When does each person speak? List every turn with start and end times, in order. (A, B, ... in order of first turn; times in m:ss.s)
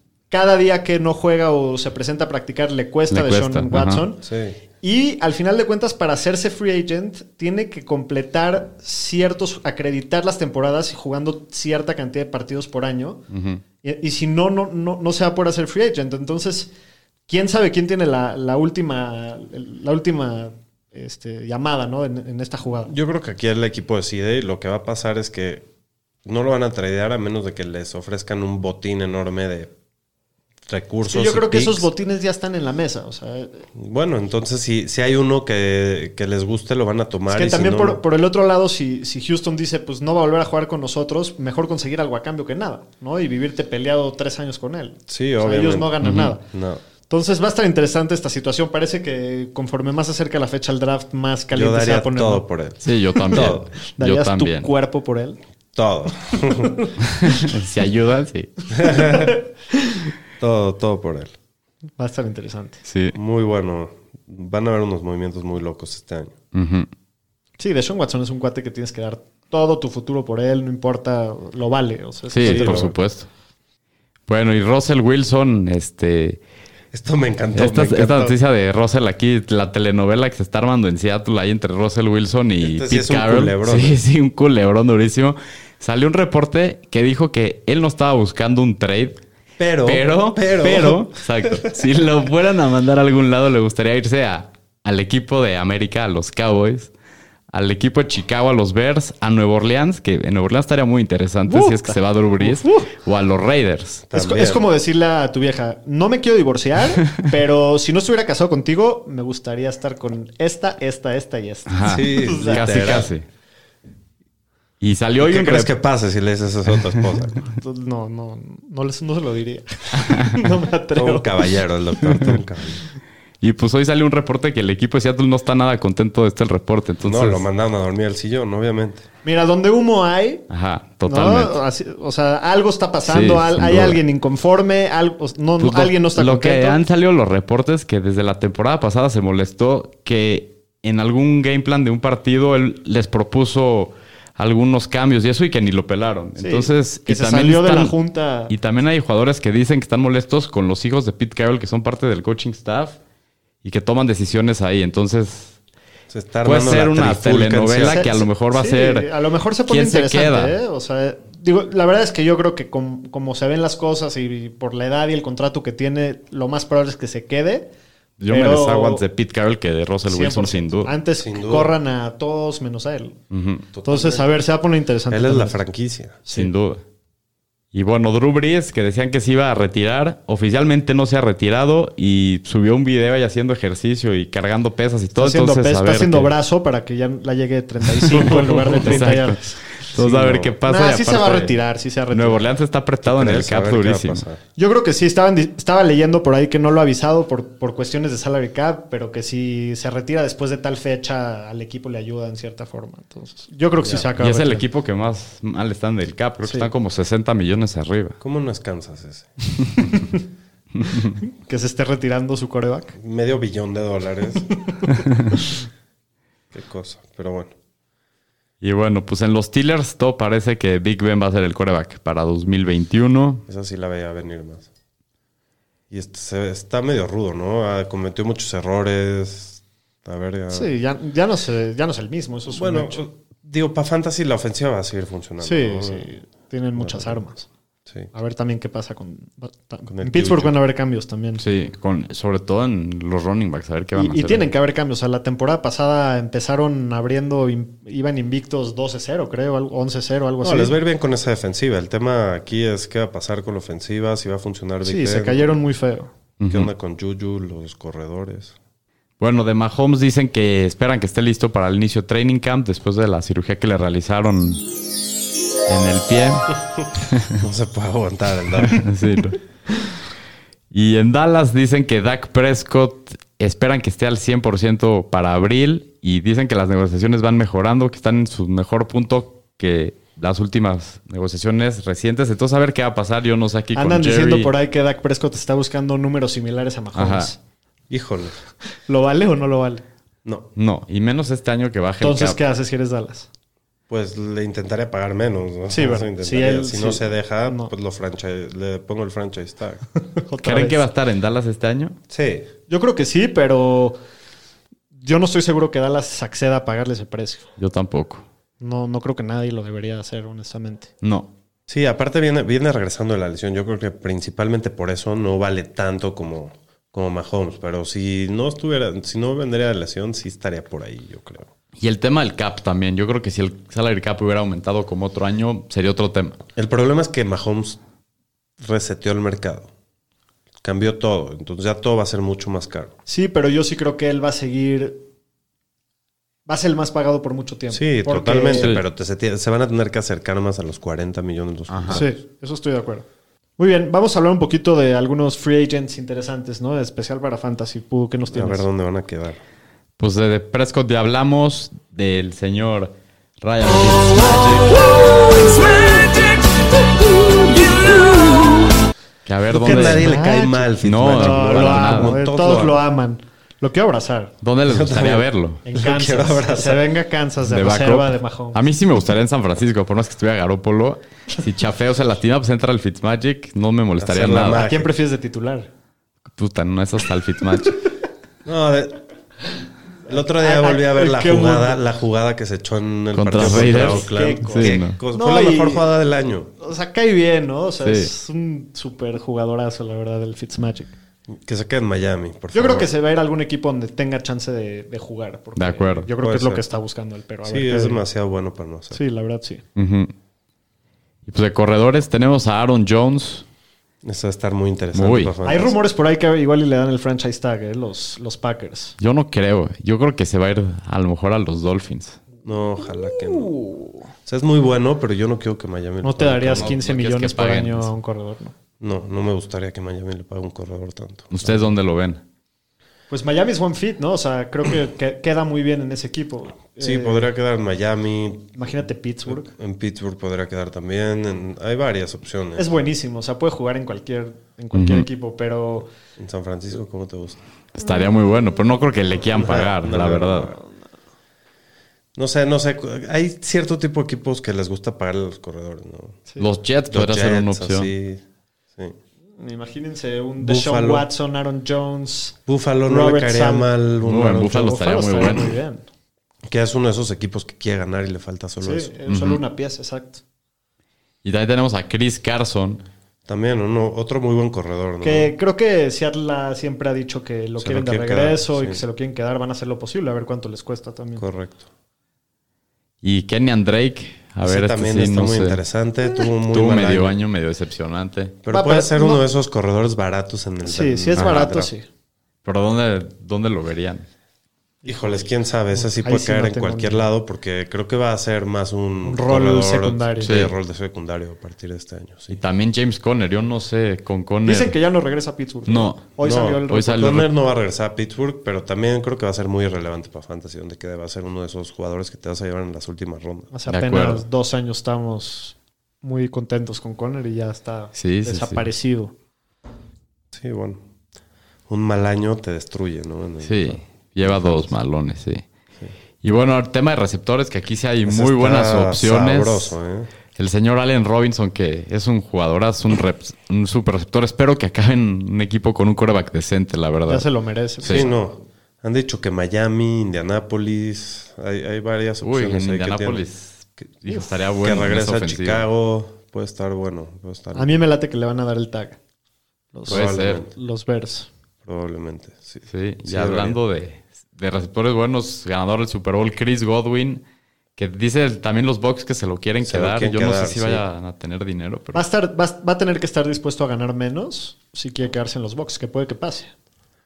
0:00.3-0:04.2 A
0:03.1-0:04.0 B
0:04.2-0:04.6 C
0:04.8-0:13.2 A
0:13.3-0:13.6 B
0:13.8-0:16.7 A
0:17.3-0:22.9 A
0:22.9-0:25.7 C
0:26.2-0:29.7 C
0:30.7-0:31.9 C
0:31.1-0:33.7 A
0:33.8-0:38.0 C
0:37.3-0:46.4 A
0:45.1-0:46.0 C
0:46.0-0:46.3 B
0:46.5-0:46.8 C
0:47.1-0:52.4 A
0:51.5-0:53.7 C
0:52.8-0:54.7 B
0:53.3-0:55.4 A
0:55.7-0:56.8 C
0:57.0-0:58.5 B
0:58.7-0:59.4 C
0:58.8-1:00.0 A
1:00.4-1:01.3 C
1:02.0-1:02.8 A
1:02.9-1:03.2 B
1:03.1-1:06.4 C
1:06.5-1:06.9 B
1:07.6-1:12.9 A
1:12.3-1:13.3 B
1:12.4-1:13.0 C
1:14.3-1:16.4 B
1:16.9-1:18.4 C
1:17.6-1:29.2 B
1:22.6-1:24.0 C
1:29.6-1:31.7 C
1:29.8-1:36.9 B
1:37.5-1:44.0 B
1:41.5-1:42.9 A
1:44.1-1:44.6 C
1:44.1-1:53.0 A
1:51.7-1:53.2 B
1:51.8-1:53.1 C
1:54.8-1:55.7 B
1:55.2-1:57.4 C
1:57.6-2:01.3 A
2:01.0-2:02.8 C
2:03.4-2:07.4 B
2:07.0-2:09.0 C
2:09.2-2:10.4 A
2:10.5-2:11.5 B
2:11.1-2:16.8 A
2:13.1-2:14.0 B
2:15.6-2:27.9 B
2:26.4-2:28.5 A
2:28.5-2:33.0 B
2:33.6-2:35.6 B
2:36.1-2:38.2 C
2:36.4-2:39.1 B
2:37.8-2:47.7 A
2:39.7-2:40.6 B
2:48.2-2:50.9 B
2:48.3-2:49.0 A
2:50.1-2:53.2 A
2:51.2-2:51.7 C
2:53.3-2:53.6 B
2:53.7-2:54.3 C
2:53.8-2:55.6 A
2:55.1-2:56.2 C
2:56.3-2:56.5 A
2:56.3-2:56.8 B
2:57.7-3:06.3 B
3:05.2-3:09.7 A
3:08.1-3:11.6 B
3:09.9-3:10.5 C
3:10.6-3:12.5 A
3:12.1-3:14.2 B
3:13.0-3:14.4 C
3:14.6-3:24.6 A
3:24.2-3:28.2 B
3:26.4-3:26.7 A
3:28.2-3:29.3 C
3:29.8-3:30.2 A
3:31.4-3:33.0 A
3:33.0-3:34.5 C
3:36.5-3:37.5 C
3:38.6-3:43.4 B
3:43.5-3:44.7 C
3:45.9-3:50.7 C
3:50.5-3:53.0 A
3:52.5-3:56.1 C
3:55.4-3:57.5 A
3:56.8-3:57.2 C
3:58.1-4:01.4 A
3:59.9-4:00.5 C
4:01.4-4:04.5 B
4:04.0-4:10.7 A
4:10.4-4:15.5 C
4:14.8-4:16.1 A
4:16.4-4:16.7 B
4:16.5-4:18.6 C
4:19.2-4:24.6 B
4:25.7-4:27.4 B
4:27.4-4:28.8 C
4:28.7-4:29.4 B
4:30.7-4:44.5 B
4:43.8-4:47.4 A
4:47.0-4:47.3 B
4:47.9-4:48.4 C
4:48.8-4:49.8 A
4:50.6-4:52.4 B
4:52.0-4:53.3 A
4:53.9-4:59.8 C
4:55.7-4:57.7 A
5:00.2-5:00.8 A
5:00.4-5:02.0 B
5:02.1-5:02.5 C
5:02.7-5:04.0 A
5:05.0-5:07.4 A
5:07.6-5:08.2 B
5:08.6-5:10.9 A
5:11.0-5:11.3 B
5:11.7-5:21.5 C
5:21.8-5:26.4 B
5:26.6-5:27.8 C
5:28.6-5:29.7 C
5:30.6-5:33.0 C
5:33.1-5:35.0 A
5:36.5-5:38.7 A
5:37.7-5:42.1 C
5:38.6-5:38.8 B
5:41.7-5:42.0 B
5:41.9-5:43.0 A
5:43.6-5:48.7 A
5:48.3-5:49.4 C
5:50.0-5:56.0 B
5:57.5-5:58.0 A
5:59.3-6:00.1 B
5:59.5-6:04.3 A
5:59.5-6:02.8 C
6:00.8-6:02.2 B
6:04.4-6:05.6 B
6:04.7-6:06.8 C
6:05.6-6:08.6 A
6:07.4-6:14.6 B
6:14.0-6:14.9 C
6:14.5-6:15.7 A
6:16.4-6:17.8 B
6:18.4-6:19.0 C
6:20.1-6:21.8 A
6:20.1-6:26.5 C
6:23.1-6:25.0 B
6:23.4-6:25.9 A
6:26.6-6:30.9 A
6:27.8-6:28.1 B
6:31.3-6:32.9 C
6:32.5-6:38.0 A
6:35.6-6:36.1 B
6:36.2-6:36.6 C
6:37.4-6:39.0 C
6:38.9-6:39.6 A
6:39.8-6:40.1 B
6:41.3-6:43.4 B
6:44.0-6:45.8 C
6:44.9-6:45.3 B
6:45.4-6:49.0 A
6:49.0-6:52.2 B
6:52.4-6:53.6 C
6:53.4-6:54.0 A
6:54.2-6:56.8 C
6:56.0-6:58.6 A
6:56.5-6:57.9 B
6:58.8-7:01.7 C
7:01.3-7:02.2 B
7:03.1-7:07.3 A
7:06.8-7:08.6 C
7:08.6-7:09.5 A
7:09.3-7:12.7 C
7:12.6-7:15.9 A
7:14.7-7:15.1 B
7:16.2-7:17.4 C
7:17.8-7:20.5 B
7:19.4-7:20.6 C
7:22.2-7:26.2 C
7:26.4-7:27.9 B
7:26.9-7:28.2 C
7:29.4-7:33.8 A
7:30.4-7:31.1 C
7:32.5-7:34.6 C
7:34.0-7:35.6 B
7:34.3-7:35.9 A
7:36.5-7:38.9 C
7:38.6-7:40.2 A
7:39.1-7:39.4 B
7:41.2-7:42.8 B
7:43.3-7:45.3 C
7:45.0-7:51.2 A
7:47.6-7:48.8 C
7:51.2-7:51.6 C
7:53.0-7:55.6 B
7:54.4-7:57.2 C
7:56.5-7:58.4 B
7:58.4-8:01.7 C
7:58.5-7:59.2 A
8:00.6-8:01.9 A
8:01.2-8:01.5 B
8:02.4-8:04.1 B
8:04.8-8:07.1 A
8:04.9-8:12.4 C
8:09.0-8:10.4 A
8:10.2-8:10.5 B
8:12.3-8:14.8 B
8:14.4-8:17.2 A
8:15.7-8:16.0 B
8:16.2-8:23.5 C
8:16.7-8:17.3 B
8:23.5-8:29.1 A
8:23.7-8:24.2 B
8:28.0-8:28.6 B
8:30.3-8:30.8 C
8:31.7-8:34.8 C
8:33.4-8:35.4 B
8:36.2-8:39.8 B
8:38.1-8:40.1 C
8:40.4-8:47.3 B
8:47.1-8:48.2 A
8:47.9-8:53.3 C
8:52.2-8:55.6 B
8:54.6-8:57.7 C
8:57.6-8:59.0 A
8:59.7-9:01.3 A
8:59.9-9:00.5 C
8:59.9-9:00.4 B
9:01.6-9:03.6 C
9:02.7-9:07.2 B
9:07.8-9:12.0 B
9:09.6-9:10.8 C
9:11.9-9:16.5 A